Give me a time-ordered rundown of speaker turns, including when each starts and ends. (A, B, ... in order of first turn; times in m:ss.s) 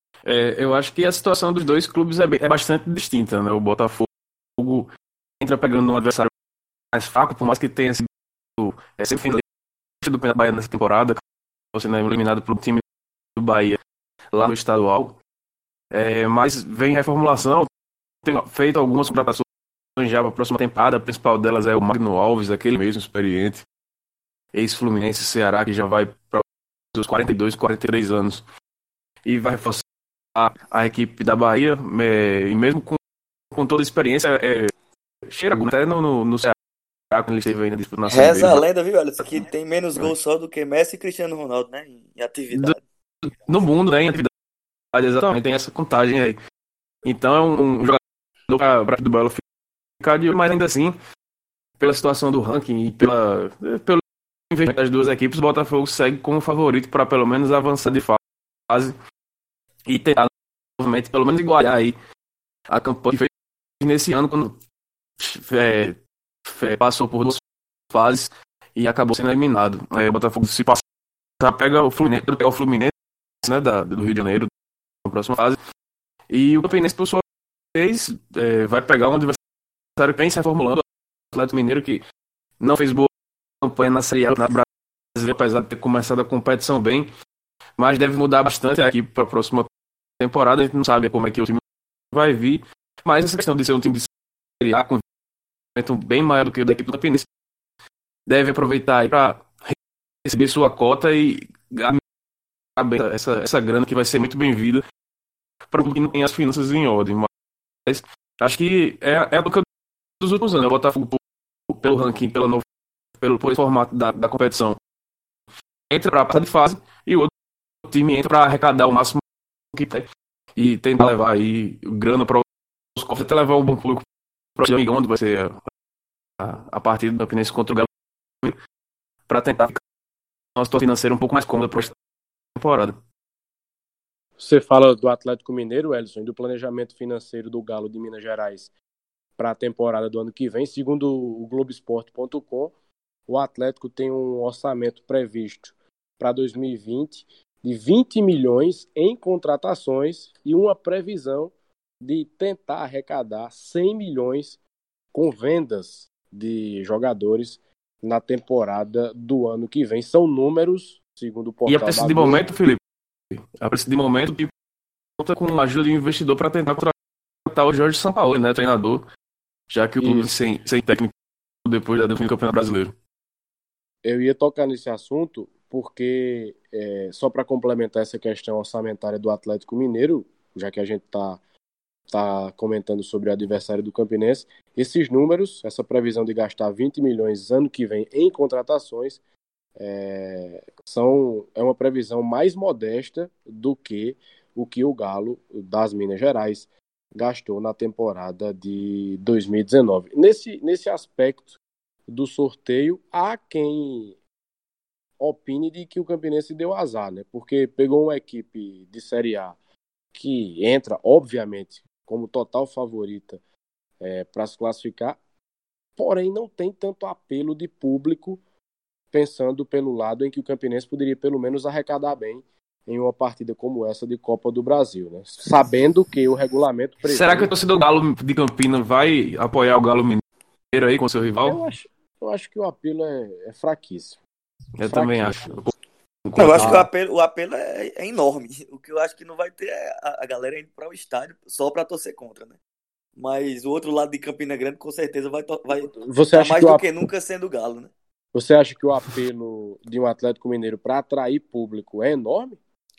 0:00.2-0:06.3 A
0:06.9-0:09.4 A
0:10.0-0:11.2 A
0:11.7-0:12.8 A
0:13.4-0:13.8 A
0:14.3-0:15.2 A
0:15.9-0:17.7 A
0:18.2-0:19.4 A
0:20.0-0:23.6 A
0:24.5-0:28.4 A
0:29.2-0:29.8 A
0:30.3-0:33.0 A
0:33.5-0:34.7 A
0:35.3-0:36.5 A
0:37.1-0:38.6 A
0:38.1-0:42.8 B
0:43.2-0:44.3 A
0:44.9-0:46.4 A
0:47.0-0:49.4 A
0:50.0-0:51.0 A
0:51.8-0:58.9 A
0:59.8-1:01.9 A
1:02.7-1:04.6 A
1:05.2-1:07.4 A
1:07.9-1:10.8 A
1:11.4-1:12.9 A
1:13.4-1:14.5 A
1:15.0-1:15.6 A
1:16.3-1:17.2 A
1:17.7-1:19.4 A
1:20.0-1:22.0 A
1:22.6-1:23.1 A
1:23.6-1:27.1 A
1:27.8-1:35.0 A
1:35.7-1:37.3 A
1:38.3-1:42.0 A
1:42.8-1:44.8 A
1:45.7-1:47.3 A
1:47.8-1:49.6 A
1:50.2-1:52.6 A
1:53.2-1:54.8 A
1:55.9-1:57.3 A
1:57.8-2:02.4 A
2:02.9-2:04.0 A
2:04.6-2:05.6 A
2:06.4-2:07.9 A
2:09.3-2:09.8 A
2:10.6-2:11.9 A
2:12.6-2:13.0 A
2:14.4-2:18.7 C
2:19.4-2:22.7 C
2:23.3-2:34.6 C
2:35.1-2:42.4 C
2:41.6-2:42.8 A
2:43.3-2:44.5 A
2:45.2-2:46.9 A
2:47.5-2:49.0 A
2:49.7-2:51.1 A
2:50.0-2:50.3 C
2:51.6-2:52.9 A
2:54.0-3:01.4 C
3:02.1-3:09.2 C
3:09.8-3:24.2 C
3:25.2-3:29.6 C
3:30.1-3:33.4 C
3:34.0-3:35.2 C
3:36.0-3:38.4 C
3:39.1-3:47.5 C
3:47.0-3:51.6 A
3:51.4-3:54.2 C
3:54.8-3:55.7 A
3:54.9-3:55.5 C
3:56.2-3:56.8 A
3:56.4-4:02.6 B
3:56.6-3:56.8 C
4:03.2-4:07.9 B
4:05.7-4:06.8 C
4:08.3-4:12.6 C